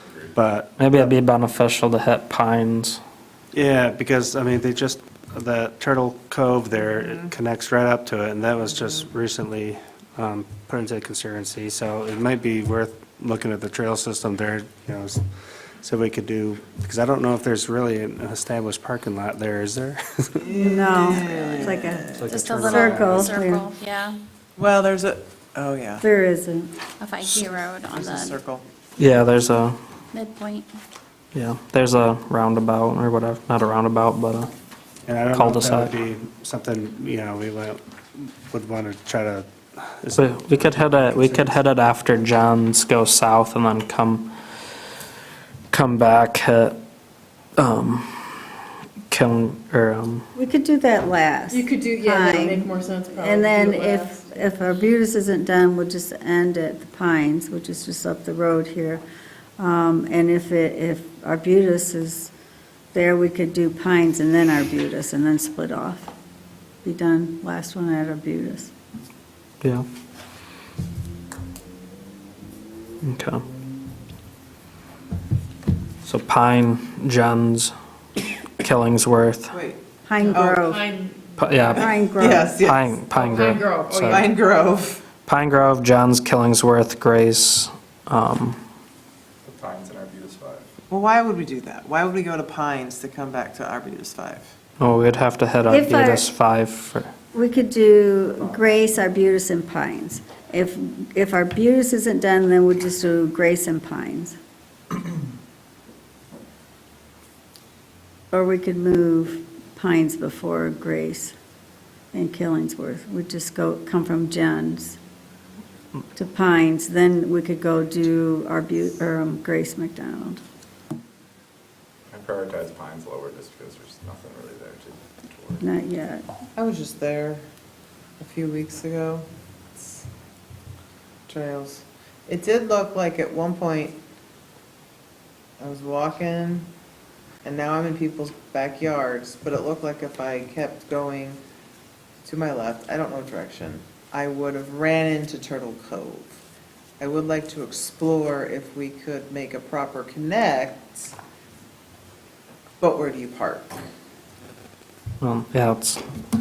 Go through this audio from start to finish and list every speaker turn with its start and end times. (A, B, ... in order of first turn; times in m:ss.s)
0:00.3-0:01.1 A
0:00.8-0:03.0 B
0:03.5-0:15.2 A
0:15.8-0:20.5 A
0:20.4-0:22.5 C
0:20.5-0:23.7 D
0:21.3-0:21.6 E
0:22.2-0:24.2 E
0:22.5-0:22.8 A
0:23.0-0:23.2 F
0:24.6-0:26.0 C
0:26.0-0:26.7 D
0:27.0-0:28.4 E
0:27.2-0:28.6 C
0:29.0-0:29.8 B
0:30.1-0:30.7 E
0:31.3-0:34.5 B
0:35.0-0:41.6 A
0:35.3-0:35.9 B
0:40.2-0:44.3 B
0:45.7-0:46.8 B
0:47.6-0:48.4 B
0:49.1-0:50.2 B
0:50.3-0:59.0 D
0:51.5-0:54.2 G
0:59.6-1:02.3 D
1:02.9-1:06.1 D
1:06.8-1:08.7 D
1:13.0-1:13.4 B
1:16.0-1:17.7 B
1:18.6-1:19.6 B
1:19.5-1:19.8 C
1:20.0-1:20.8 D
1:20.2-1:21.9 G
1:20.3-1:20.6 C
1:21.4-1:21.9 B
1:21.7-1:22.6 D
1:21.8-1:22.9 C
1:22.6-1:24.3 B
1:23.1-1:24.3 G
1:24.0-1:25.0 C
1:25.2-1:28.6 B
1:29.4-1:30.7 F
1:30.9-1:34.5 C
1:34.8-1:37.1 B
1:35.7-1:36.3 D
1:37.3-1:44.4 D
1:48.3-1:51.3 D
1:52.1-1:55.0 D
1:56.1-2:00.4 D
2:02.1-2:05.6 F
2:05.6-2:06.2 D
2:06.6-2:07.4 C
2:08.2-2:10.0 C
2:11.3-2:14.0 C
2:15.6-2:16.7 C
2:17.4-2:21.4 C
2:22.2-2:26.4 C
2:27.0-2:31.1 C
2:32.8-2:33.8 C
2:35.2-2:36.0 B